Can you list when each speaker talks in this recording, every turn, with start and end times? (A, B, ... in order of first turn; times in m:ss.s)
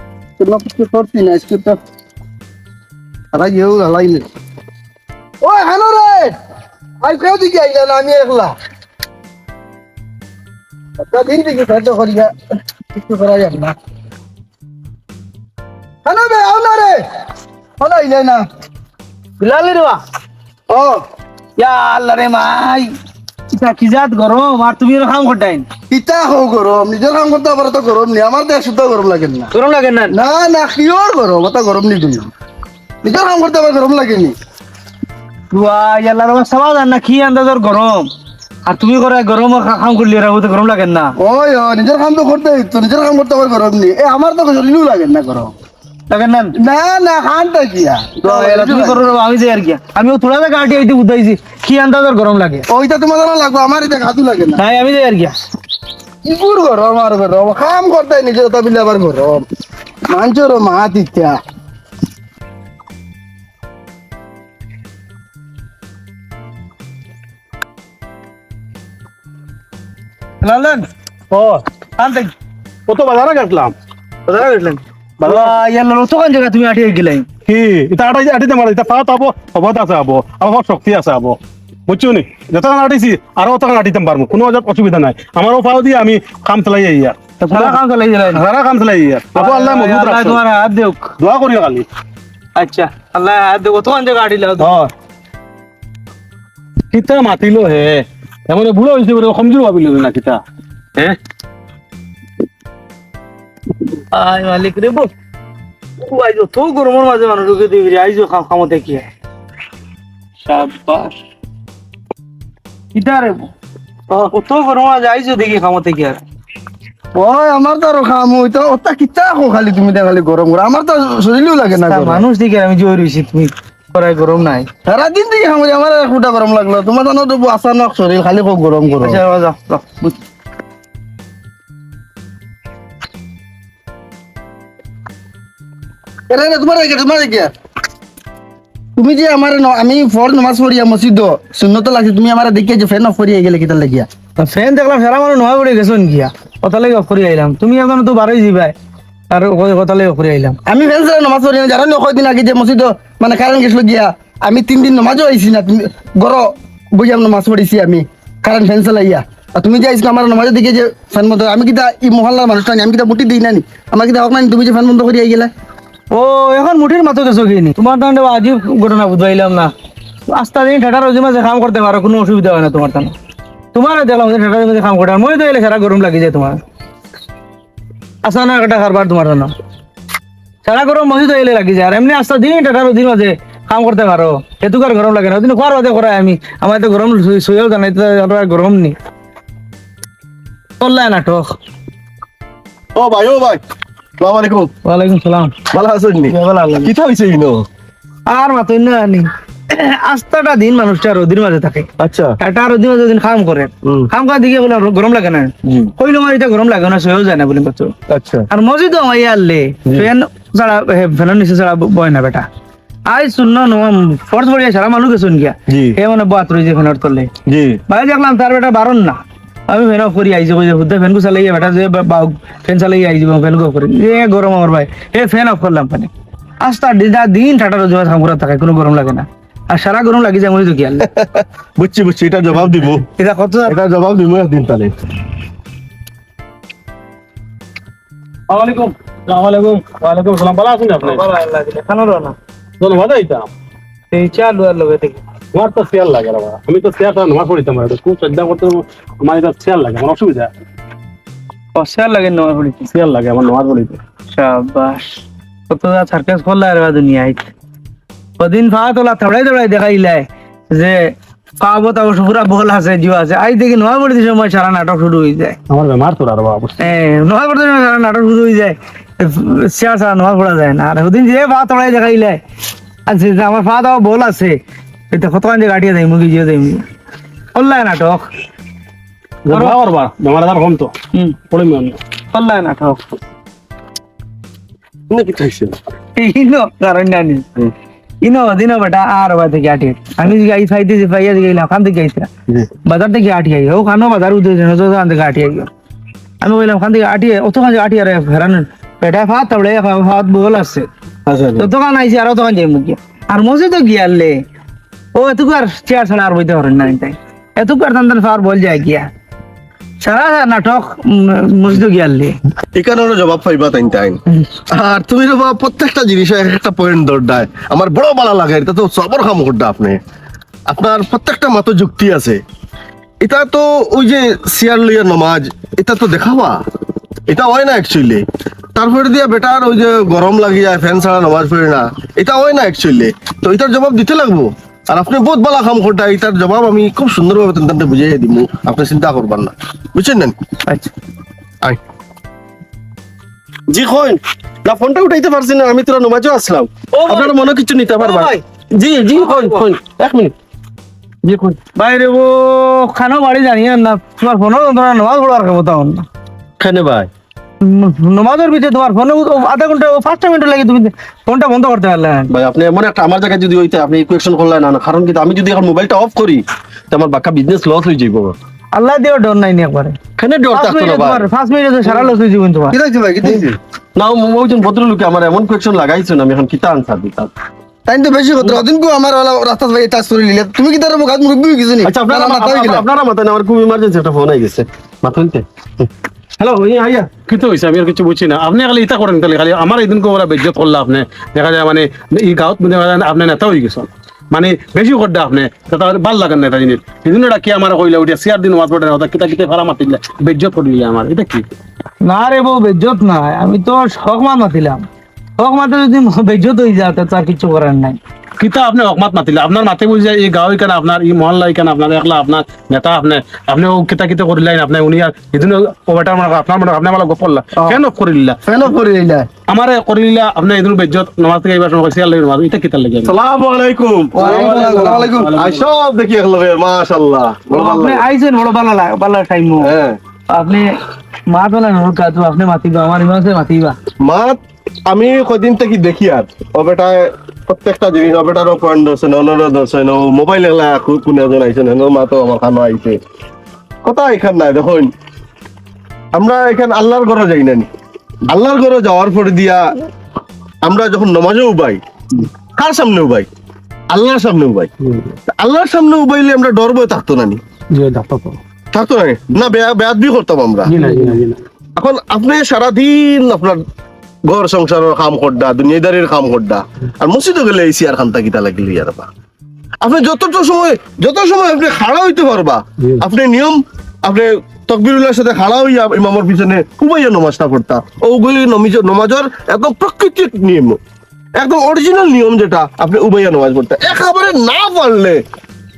0:00.4-0:01.8 A
0:03.3-0:04.3 A
0:05.4-0:06.4 A
0:07.0-0:08.6 A
0:11.0-0:12.3 A
0:13.0-0:13.8 A
0:16.1-0:17.0 A
0:17.8-0:18.4 A
0:19.4-0:20.0 B
0:20.7-0:21.0 A
0:21.6-0:22.9 B
0:23.5-0:25.7 B
0:25.9-0:29.5 A
0:29.5-0:30.2 B
0:30.1-0:32.3 A
0:33.0-0:34.4 A
0:35.5-0:38.1 B
0:38.7-0:41.2 B
0:41.2-0:45.5 A
0:46.1-0:46.6 B
0:46.6-0:49.1 A
0:48.2-0:52.7 B
0:52.7-0:54.6 A
0:54.6-0:55.3 B
0:56.2-0:59.5 A
1:00.1-1:01.4 A
1:10.4-1:10.9 B
1:11.3-1:11.6 C
1:12.0-1:12.3 B
1:12.9-1:13.7 C
1:14.3-1:17.3 B
1:15.2-1:15.6 C
1:17.5-1:27.8 C
1:27.4-1:28.4 B
1:28.3-1:30.4 C
1:29.4-1:31.1 B
1:31.2-1:31.9 C
1:32.6-1:34.7 B
1:34.6-1:34.9 C
1:36.9-1:40.4 C
1:44.1-1:45.1 B
1:46.0-1:49.1 B
1:50.4-1:51.2 B
1:52.9-1:53.5 B
1:54.1-1:56.2 B
1:57.2-2:02.2 A
2:01.8-2:04.7 B
2:04.9-2:09.2 A
2:09.0-2:10.2 B
2:16.3-2:17.5 A
2:19.0-2:24.1 A
2:24.4-2:28.7 B
2:29.3-2:30.6 B
2:30.6-2:45.5 A
2:46.1-2:49.7 B
2:50.3-2:53.1 B
2:53.7-2:56.6 B
2:58.2-2:59.5 B
3:00.6-3:09.0 B
3:10.8-3:11.6 B
3:13.0-3:13.6 D
3:14.2-3:14.7 D
3:14.9-3:15.5 B
3:15.7-3:17.6 D
3:16.3-3:16.9 B
3:18.3-3:21.9 B
3:22.0-3:22.4 D
3:22.4-3:27.9 B
3:28.1-3:28.5 D
3:28.5-3:32.4 B
3:33.1-3:37.3 B
3:35.7-3:36.0 D
3:37.5-3:37.8 D
3:37.9-3:39.2 B
3:39.7-3:46.1 B
3:46.6-3:51.1 B
3:51.1-3:53.0 D
3:53.2-3:53.8 B
3:53.7-3:54.9 D
3:58.5-4:01.2 C
4:01.0-4:02.4 B
4:02.8-4:03.5 C
4:04.1-4:05.2 B
4:05.5-4:10.5 C
4:11.8-4:12.9 B
4:12.9-4:14.0 C
4:14.3-4:17.5 B
4:18.4-4:25.6 B
4:25.7-4:26.8 C
4:26.8-4:32.4 B
4:33.1-4:34.6 B
4:35.1-4:36.8 B
4:37.5-4:38.3 B
4:39.5-4:40.9 C
4:39.5-4:39.8 B
4:41.5-4:42.0 C
4:42.3-4:43.2 B
4:45.1-4:45.8 D
4:46.2-4:47.4 B
4:48.2-4:52.3 B
4:52.9-4:55.7 B
4:56.4-5:00.9 B
5:01.3-5:01.7 D
5:01.6-5:04.4 B
5:05.1-5:09.1 B
5:10.0-5:12.4 B
5:12.7-5:20.0 D
5:20.7-5:22.4 D
5:23.2-5:26.6 D
5:27.3-5:28.2 D
5:28.8-5:40.4 D
5:40.7-5:40.9 B
5:43.7-5:50.3 D
5:46.9-5:47.3 B
5:48.0-5:48.4 B
5:49.2-5:49.6 B
5:51.2-5:51.6 D
5:51.8-5:56.0 B
5:56.6-5:57.1 D
5:57.6-6:02.3 B
6:02.3-6:08.4 D
6:08.7-6:10.0 B
6:10.2-6:11.2 D
6:10.5-6:12.8 B
6:12.7-6:13.5 A
6:13.2-6:17.3 D
6:17.9-6:22.8 A
6:21.8-6:25.9 D
6:26.4-6:27.1 D
6:27.2-6:41.5 C
6:42.0-6:44.8 B
6:45.4-6:48.0 B
6:48.4-6:58.4 C
6:57.6-6:57.8 A
6:58.4-6:59.3 A
6:59.5-7:03.1 C
7:03.0-7:04.7 D
7:04.1-7:05.2 B
7:04.2-7:05.7 C
7:04.4-7:05.3 A
7:05.3-7:08.0 D
7:07.5-7:09.7 B
7:09.6-7:10.0 D
7:10.3-7:10.7 B
7:11.3-7:13.8 B
7:14.0-7:23.0 D
7:23.8-7:24.9 D
7:26.1-7:27.7 D
7:28.3-7:29.7 D
7:30.6-7:33.3 D
7:33.9-7:34.7 D
7:34.8-7:35.1 C
7:35.3-7:37.4 D
7:37.7-7:38.4 C
7:38.7-7:40.7 D
7:40.7-7:41.4 C
7:41.8-7:43.6 D
7:44.3-7:49.1 D
7:49.8-8:00.8 D
8:01.4-8:05.2 D